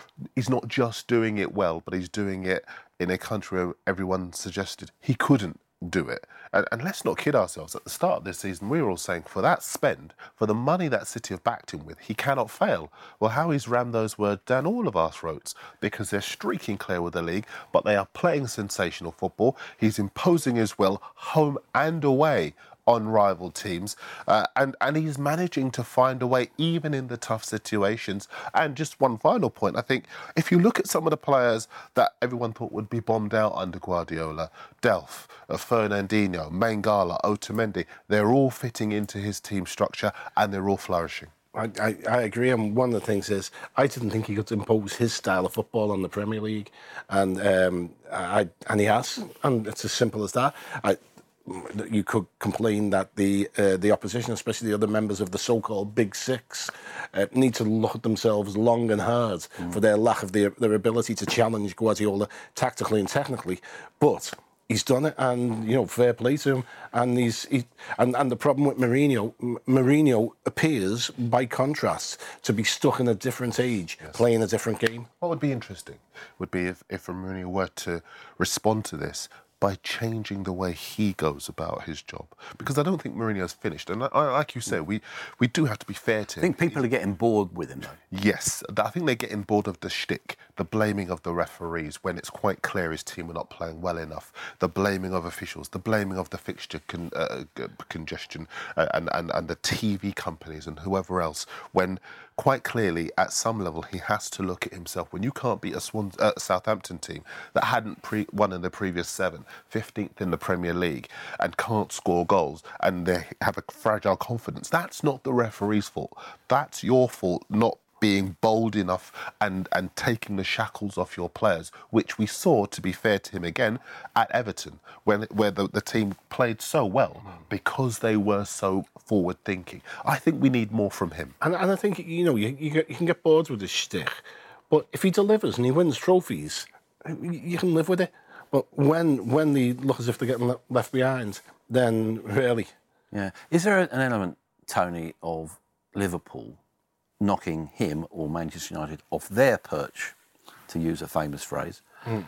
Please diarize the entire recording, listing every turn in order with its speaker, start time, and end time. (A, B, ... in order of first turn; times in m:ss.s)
0:00.3-0:41.3 A
0:41.5-1:15.1 B
1:15.2-1:26.8 A
1:26.4-1:28.0 C
1:28.1-2:11.4 A
2:11.4-2:22.7 B
2:23.1-2:26.6 C
2:27.2-2:30.1 C
2:30.7-2:31.8 C